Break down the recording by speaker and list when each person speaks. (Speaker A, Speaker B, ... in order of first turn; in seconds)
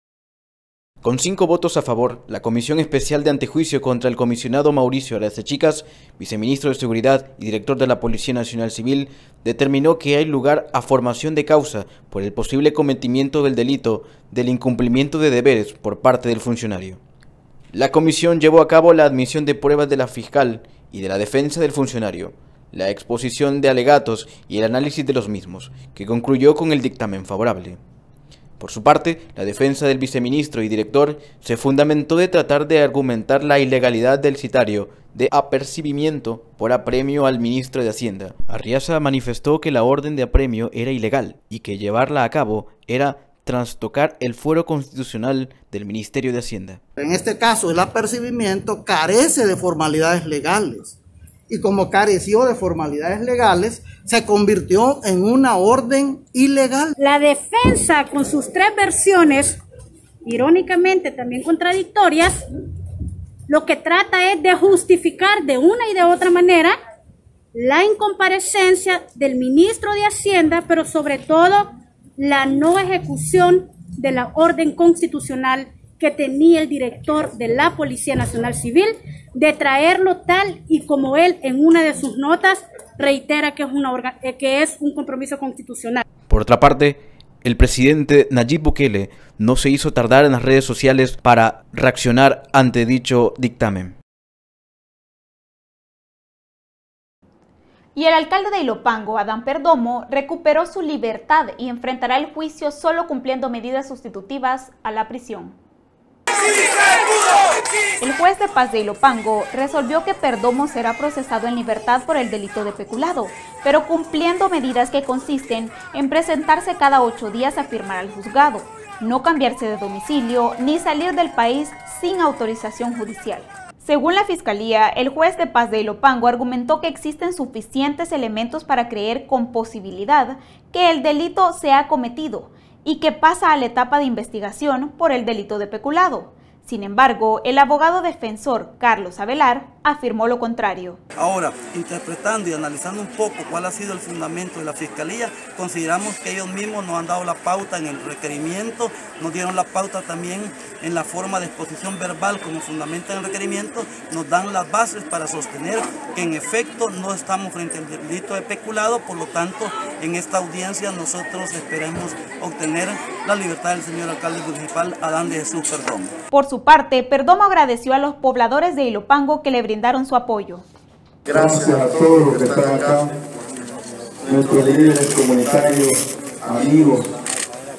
Speaker A: 1.0-17.0, 17.7-27.8, 28.6-46.8, 86.3-93.9
Speaker B: 47.0-51.0, 51.5-56.9
Speaker C: 57.0-59.6, 60.2-62.4, 63.5-66.8, 67.5-86.0
Speaker D: 97.9-105.6, 108.0-141.0, 166.3-170.6
Speaker E: 141.2-166.1
Speaker F: 171.3-173.2, 174.2-177.1